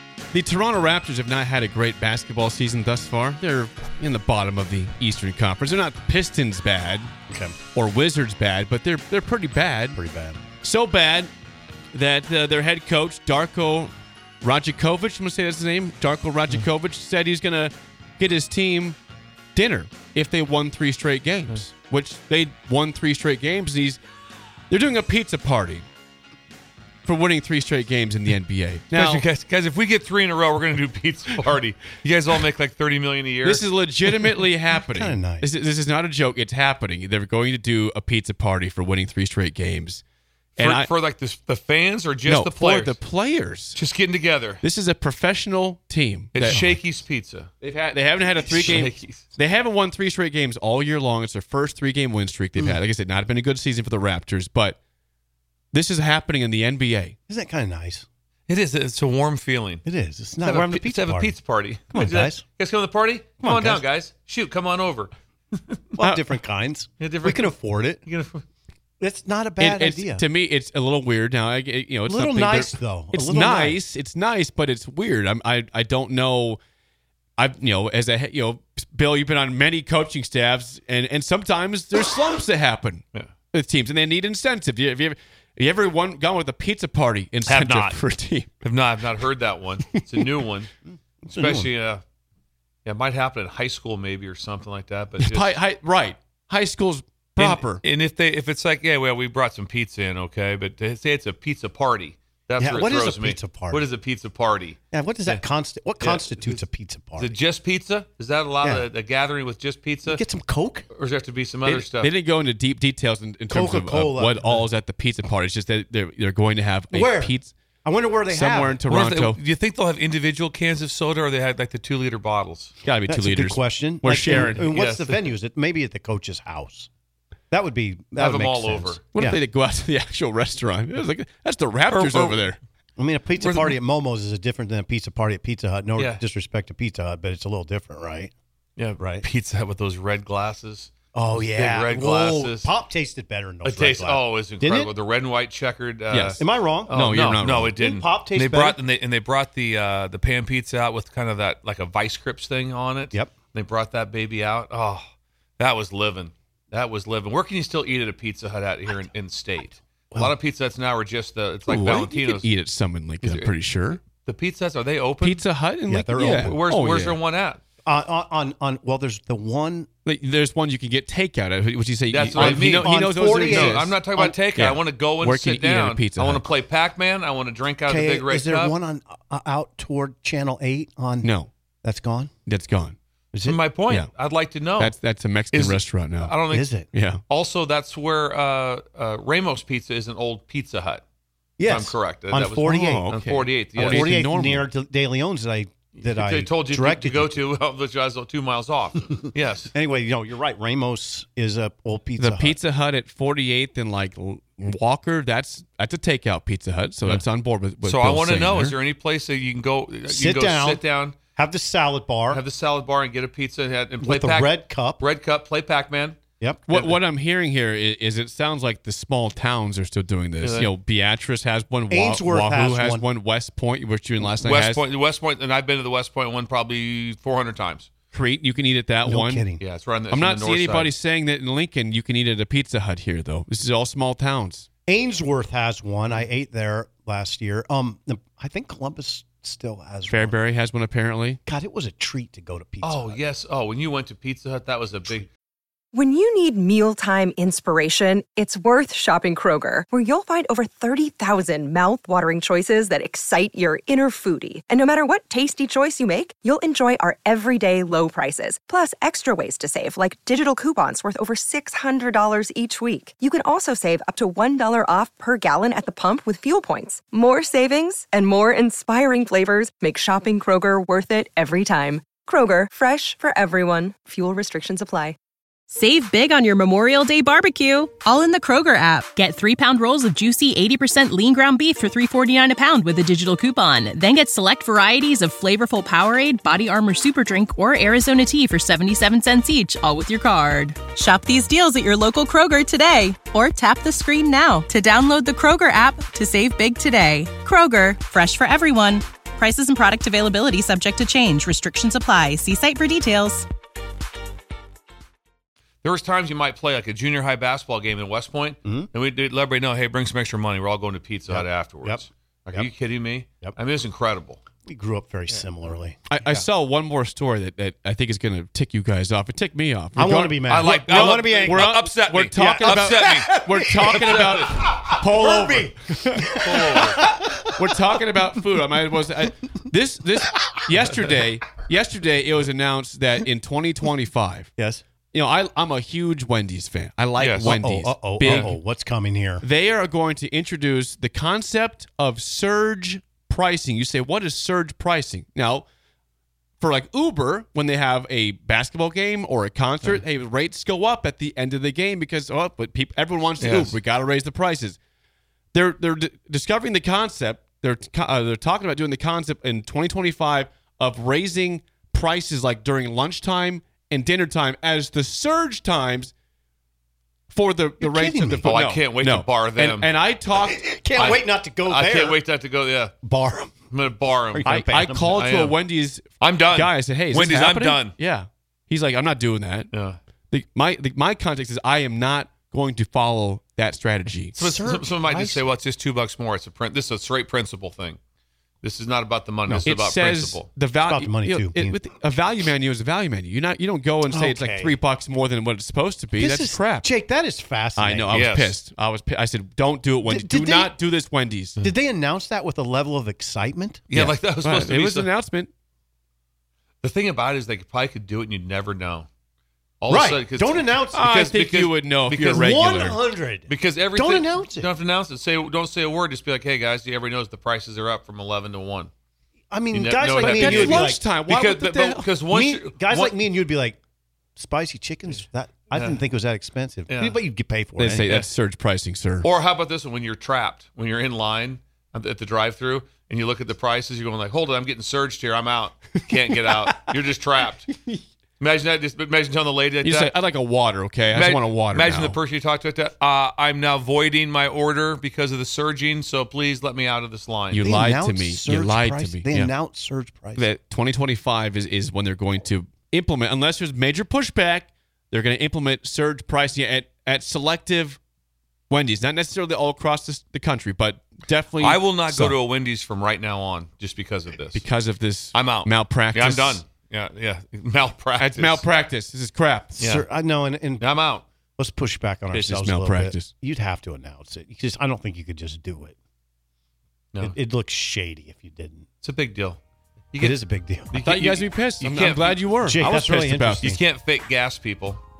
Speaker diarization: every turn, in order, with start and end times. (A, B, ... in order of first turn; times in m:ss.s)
0:00.3-0:07.1 A
0:07.3-0:07.6 B
0:07.7-0:10.0 A
0:09.9-0:10.4 B
0:10.6-0:11.3 A
0:11.9-0:13.9 A
0:14.4-0:19.0 A
0:19.5-0:24.0 A
0:24.7-0:25.8 A
0:27.0-0:29.2 A
0:28.9-0:34.4 C
0:33.4-0:40.0 A
0:34.8-0:35.5 B
0:40.6-0:43.0 C
0:40.6-0:40.9 A
0:42.2-0:43.8 A
0:43.7-0:44.6 C
0:44.6-0:46.7 A
0:46.3-0:47.5 C
0:47.6-0:54.8 A
0:48.4-0:49.3 C
0:55.7-0:57.2 A
0:57.3-0:58.0 B
0:58.5-0:59.8 C
0:59.8-1:01.4 B
1:00.4-1:05.8 C
1:01.9-1:02.4 B
1:03.4-1:03.8 B
1:06.0-1:08.0 B
1:06.0-1:06.2 A
1:07.0-1:07.5 C
1:08.0-1:08.4 C
1:09.0-1:10.2 B
1:09.6-1:16.6 A
1:12.1-1:13.8 B
1:17.4-1:28.5 A
1:27.4-1:28.0 C
1:28.6-1:30.7 C
1:31.2-1:31.7 B
1:31.3-1:32.0 C
1:32.8-1:35.6 C
1:35.2-1:37.8 A
1:37.4-1:45.4 C
1:42.6-1:43.8 B
1:44.9-1:47.3 B
1:46.0-1:46.6 C
1:47.2-1:50.2 C
1:50.1-1:50.9 B
1:50.9-1:52.1 C
1:51.6-1:57.5 A
1:53.5-1:54.6 B
1:56.9-1:58.8 B
1:58.3-1:59.4 A
1:58.9-2:02.7 C
2:02.8-2:04.7 A
2:03.1-2:06.9 B
2:04.7-2:05.2 C
2:07.5-2:09.4 B
2:08.2-2:09.0 C
2:09.1-2:12.6 A
2:11.9-2:12.4 C
2:13.0-2:18.3 B
2:13.4-2:13.8 C
2:16.0-2:16.2 C
2:18.8-2:22.7 C
2:19.0-2:19.2 B
2:21.1-2:24.9 B
2:23.6-2:35.0 C
2:26.1-2:27.8 A
2:26.4-2:27.0 B
2:27.7-2:28.8 B
2:35.6-2:42.5 C
2:41.7-2:44.0 A
2:43.2-2:43.5 C
2:44.0-2:45.4 C
2:45.2-2:47.2 A
2:45.9-2:46.6 B
2:46.2-2:47.6 C
2:47.8-2:49.9 B
2:50.0-2:53.9 A
2:52.1-2:58.8 C
2:52.3-2:54.4 B
2:54.5-2:56.4 A
2:57.9-3:01.3 B
3:01.2-3:01.5 A
3:01.8-3:02.3 B
3:02.4-3:03.0 A
3:03.3-3:03.6 B
3:03.4-3:04.9 C
3:04.8-3:06.4 A
3:05.5-3:06.7 C
3:06.5-3:06.9 B
3:06.9-3:07.2 A
3:07.3-3:11.0 C
3:11.6-3:13.1 B
3:11.7-3:14.1 C
3:12.6-3:14.7 A
3:13.8-3:17.3 B
3:16.0-3:19.7 C
3:19.7-3:22.6 B
3:22.2-3:28.8 A
3:27.8-3:31.2 C
3:30.1-3:30.8 B
3:31.4-3:32.4 B
3:32.3-3:36.2 C
3:34.0-3:35.0 B
3:36.7-3:44.8 A
3:36.7-3:37.0 C
3:40.4-3:40.7 C
3:41.9-3:43.0 B
3:44.2-3:47.9 C
3:48.1-3:49.5 A
3:49.0-3:49.6 B
3:49.6-3:50.9 C
3:50.1-3:54.7 A
3:54.9-4:00.4 B
4:00.1-4:01.4 A
4:01.4-4:03.2 B
4:02.8-4:05.3 C
4:05.9-4:35.2 D
4:35.7-5:03.5 E
5:05.8-5:14.4 C
5:11.3-5:12.7 B
5:14.6-5:16.1 B
5:16.1-5:26.3 A
5:16.2-5:16.5 C
5:20.0-5:21.7 B
5:20.4-5:24.8 C
5:22.3-5:28.0 B
5:26.4-5:27.0 C
5:27.5-5:34.5 A
5:34.6-5:34.8 B
5:35.1-5:38.6 A
5:37.2-5:37.6 C
5:37.4-5:39.4 B
5:38.2-5:38.5 C
5:39.4-5:45.6 A
5:46.6-5:54.8 A
5:53.4-5:53.8 C
5:55.5-6:06.1 A
6:07.3-6:10.7 A
6:07.8-6:08.6 B
6:08.4-6:09.9 C
6:10.4-6:12.2 B
6:10.9-6:12.9 C
6:13.0-6:13.6 B
6:13.7-6:15.5 C
6:14.3-6:15.2 B
6:14.4-6:19.7 A
6:16.2-6:17.9 C
6:19.7-6:20.0 C
6:20.3-6:24.4 A
6:24.3-6:28.0 C
6:24.4-6:25.4 B
6:28.6-6:30.5 C
6:29.6-6:36.8 A
6:30.9-6:31.8 B
6:34.1-6:34.8 B
6:36.2-6:38.2 B
6:37.8-6:41.7 A
6:38.1-6:38.6 C
6:40.0-6:40.7 B
6:41.6-6:43.8 B
6:43.9-6:45.1 C
6:43.9-6:45.5 A
6:46.8-6:49.1 C
6:49.8-6:52.6 C
6:49.9-6:51.1 B
6:50.9-6:53.0 A
6:52.3-6:54.7 B
6:53.5-6:58.9 C
6:59.5-7:01.0 B
6:59.7-7:03.2 C
7:00.2-7:02.2 A
7:02.3-7:03.8 B
7:04.4-7:08.1 B
7:05.7-7:06.0 C
7:06.9-7:07.2 C
7:07.8-7:09.3 A
7:09.2-7:17.7 C
7:18.4-7:20.1 C
7:19.8-7:22.2 A
7:21.1-7:27.7 C
7:27.5-7:29.5 A
7:27.6-7:30.4 B
7:30.4-7:38.0 A
7:38.7-7:42.4 A
7:41.6-7:44.6 C
7:44.5-7:46.6 A
7:45.3-7:48.6 C
7:48.2-7:49.8 A
7:49.7-7:50.9 B
7:49.8-7:50.0 C
7:50.8-7:51.2 C
7:51.6-7:56.0 B
7:52.3-7:53.3 A
7:57.2-7:58.8 B
7:59.0-7:59.6 C
8:00.1-8:00.4 C
8:00.2-8:01.0 B
8:00.9-8:02.5 C
8:01.0-8:03.7 A
8:02.6-8:03.8 B
8:03.6-8:05.0 C